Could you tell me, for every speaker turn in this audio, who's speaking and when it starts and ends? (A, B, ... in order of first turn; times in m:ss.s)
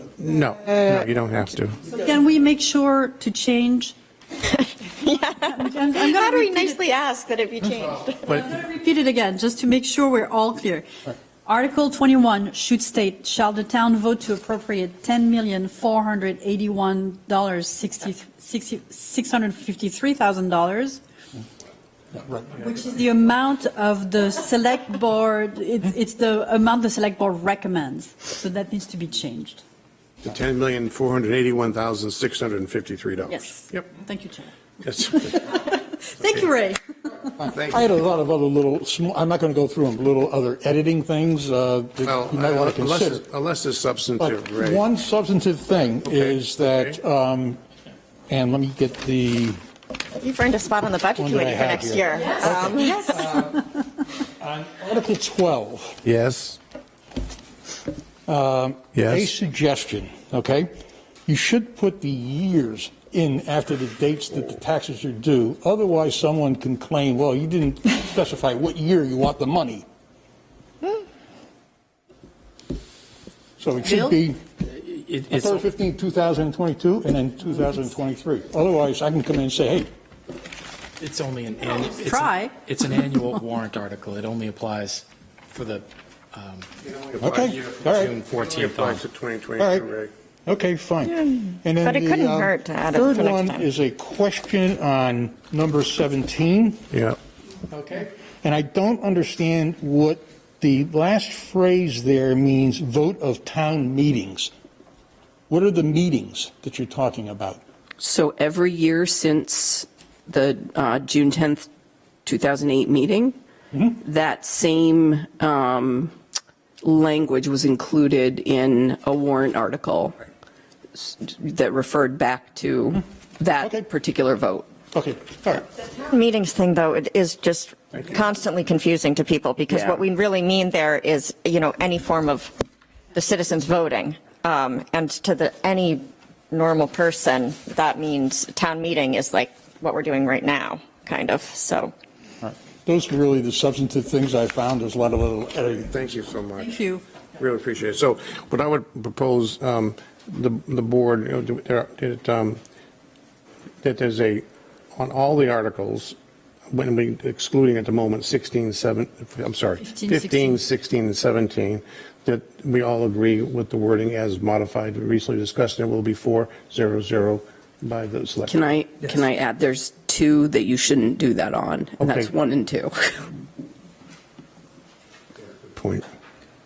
0:00.2-0:01.8 A
0:01.8-0:04.0 B
0:04.6-0:08.4 C
0:05.0-0:06.8 B
0:08.3-0:10.9 B
0:11.4-0:21.0 B
0:22.2-0:22.5 D
0:22.6-0:29.6 B
0:30.2-0:33.8 A
0:33.3-0:34.5 B
0:34.8-0:35.7 A
0:35.1-0:36.8 B
0:37.4-0:43.3 D
0:37.5-0:37.9 A
0:42.0-0:44.8 A
0:44.2-0:47.6 D
0:46.0-0:47.0 A
0:48.3-0:49.6 D
0:50.2-0:53.3 C
0:51.2-0:53.8 D
0:54.4-0:56.0 D
0:56.0-0:56.6 A
0:58.3-1:00.7 D
0:58.9-0:59.3 A
1:01.3-1:09.9 D
1:13.6-1:14.5 D
1:13.8-1:14.2 B
1:14.7-1:15.6 E
1:15.2-1:19.9 D
1:21.0-1:26.7 E
1:21.9-1:22.6 B
1:26.8-1:30.1 A
1:27.2-1:28.2 D
1:28.3-1:29.0 E
1:29.6-1:29.9 D
1:30.5-1:36.9 D
1:31.3-1:33.6 C
1:36.9-1:37.2 A
1:37.7-1:38.1 E
1:38.0-1:44.5 D
1:45.5-1:47.6 D
1:48.0-1:51.7 F
1:52.2-1:53.4 F
1:53.7-1:54.0 D
1:54.0-1:56.1 F
1:56.8-2:00.2 F
2:01.0-2:04.7 F
2:03.6-2:03.9 D
2:04.9-2:05.7 D
2:05.8-2:12.6 C
2:09.7-2:10.0 F
2:13.1-2:21.9 C
2:22.4-2:25.9 D
2:25.9-2:26.7 A
2:26.6-2:27.0 B
2:27.4-2:32.6 A
2:33.8-2:36.2 A
2:36.7-2:48.7 A
2:39.8-2:40.6 B
2:48.5-2:53.3 F
2:52.0-2:52.3 A
2:55.8-2:56.0 A